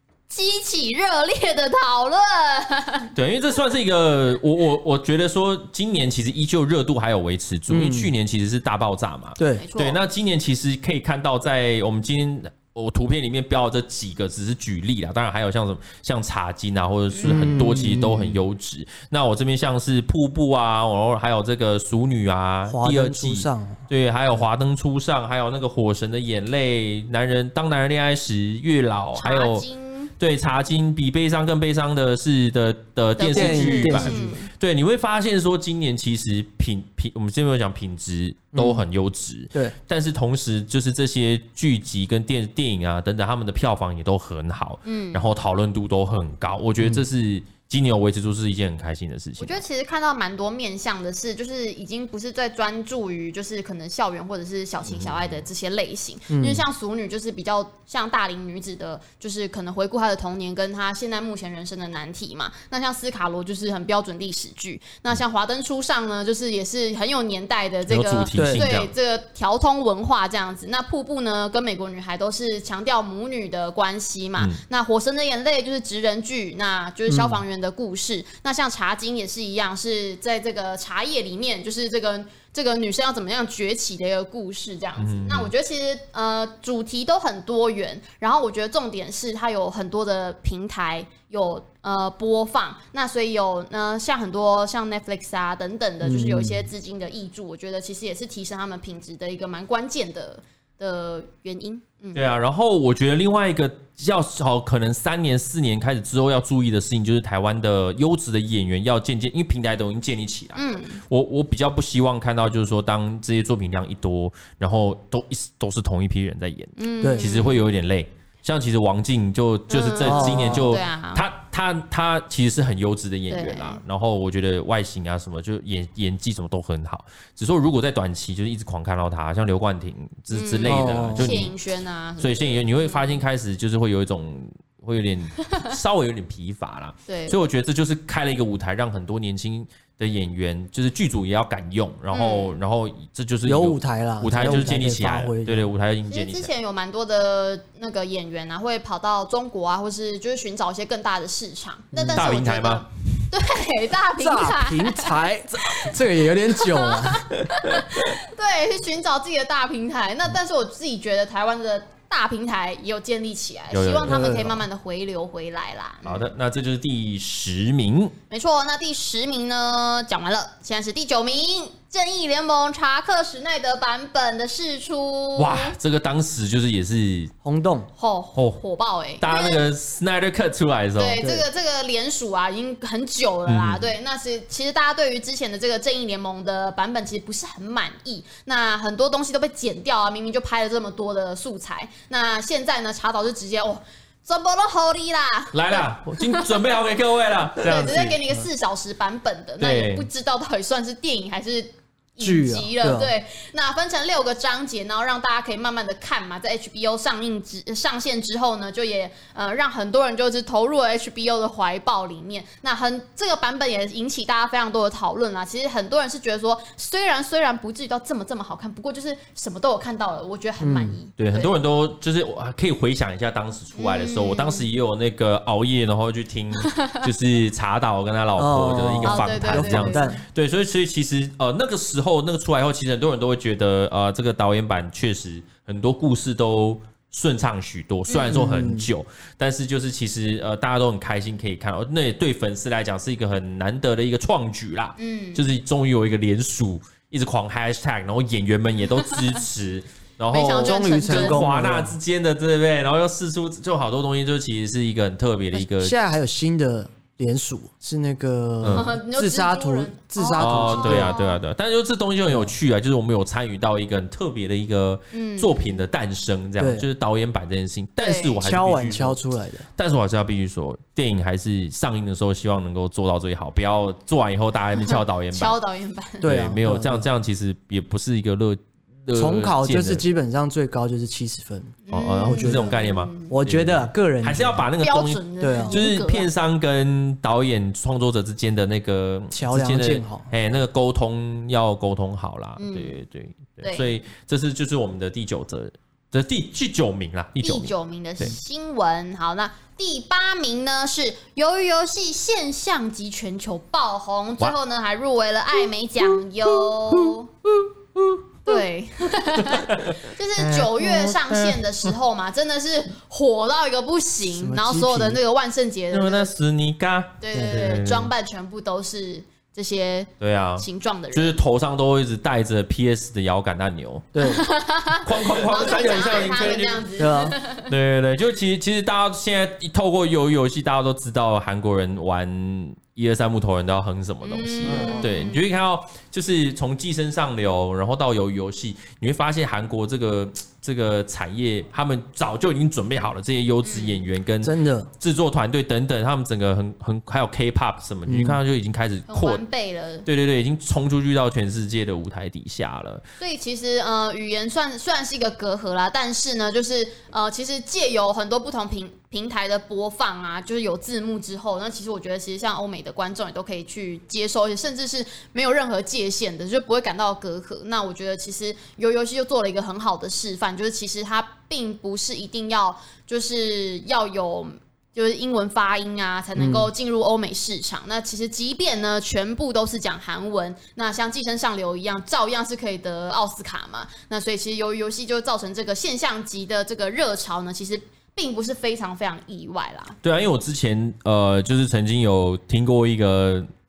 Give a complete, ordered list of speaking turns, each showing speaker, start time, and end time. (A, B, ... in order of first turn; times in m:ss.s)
0:00.3-0:03.1 A
0:03.2-0:29.6 B
0:07.7-0:08.1 C
0:09.4-0:09.7 C
0:09.6-0:10.0 A
0:17.1-0:17.7 A
0:17.2-0:18.4 C
0:22.7-0:23.8 C
0:29.2-0:30.1 A
0:30.2-0:49.6 B
0:33.2-0:34.5 A
0:33.3-0:34.4 C
0:38.6-0:38.8 C
0:44.8-0:45.3 A
0:49.4-1:42.2 A
0:54.9-0:55.4 B
0:56.3-0:56.7 C
1:07.9-1:08.9 B
1:08.4-1:08.7 C
1:17.1-1:17.4 C
1:25.0-1:25.5 B
1:36.0-1:36.7 C
1:42.1-2:11.5 B
1:50.6-1:51.0 A
1:56.8-1:57.7 A
1:57.0-1:57.3 C
1:59.7-2:01.2 A
2:00.0-2:00.8 C
2:03.3-2:03.8 A
2:10.3-2:13.2 A
2:10.6-2:11.5 C
2:12.2-2:26.5 B
2:17.1-2:17.4 A
2:22.1-2:22.6 A
2:23.4-2:25.7 C
2:26.1-2:35.2 A
2:31.9-2:32.3 C
2:32.1-2:32.9 B
2:34.2-2:37.3 C
2:36.6-2:46.3 A
2:43.7-2:44.4 B
2:44.1-2:44.6 C
2:46.0-2:48.1 B
2:48.3-2:55.8 A
2:55.4-2:57.3 B
2:57.4-2:57.9 C
2:58.0-2:59.6 A
2:59.2-3:01.2 B
3:01.0-3:16.7 A
3:01.2-3:01.5 C
3:03.5-3:03.9 B
3:15.5-3:18.2 B
3:17.6-3:41.5 A
3:19.6-3:20.1 B
3:22.2-3:23.1 C
3:40.6-3:41.0 C
3:41.2-4:16.0 B
3:43.8-3:44.7 A
3:46.6-3:47.0 A
3:48.4-3:50.2 C
3:49.0-3:50.2 A
3:58.1-3:58.4 A
3:58.3-3:58.9 C
4:05.0-4:05.5 A
4:10.3-4:11.4 A
4:10.6-4:12.0 C
4:15.6-4:21.1 C
4:18.6-4:18.9 B
4:18.7-4:21.4 A
4:20.4-4:29.2 B
4:25.1-4:25.6 A
4:26.6-4:26.9 C
4:28.0-4:28.4 A
4:28.4-4:29.6 C
4:29.8-4:35.6 B
4:34.8-4:36.3 A
4:36.2-4:37.1 C
4:36.2-4:40.0 B
4:39.1-4:42.7 C
4:41.9-4:43.4 A
4:41.9-4:58.4 B
4:43.3-4:44.6 C
4:44.8-4:46.3 A
4:45.4-4:45.8 C
4:49.3-4:50.3 C
4:52.6-4:53.0 A
4:53.6-4:53.9 A
4:57.4-5:07.3 A
5:06.6-5:08.2 B
5:08.5-5:16.3 A
5:09.4-5:11.6 B
5:14.3-5:15.2 C
5:15.9-5:18.1 B
5:17.2-5:21.4 A
5:17.3-5:17.6 C
5:20.2-5:24.1 B
5:24.1-5:24.4 C
5:24.2-5:27.7 A
5:25.0-5:26.9 B
5:27.0-5:27.4 C
5:27.7-5:49.4 B
5:34.2-5:35.4 A
5:34.6-5:35.1 C
5:43.6-5:44.0 A
5:44.4-5:44.9 C
5:48.1-5:48.4 C
5:49.1-5:50.1 A
5:50.1-5:53.0 B
5:53.2-6:30.0 A
6:16.4-6:16.7 C
6:30.0-6:33.5 B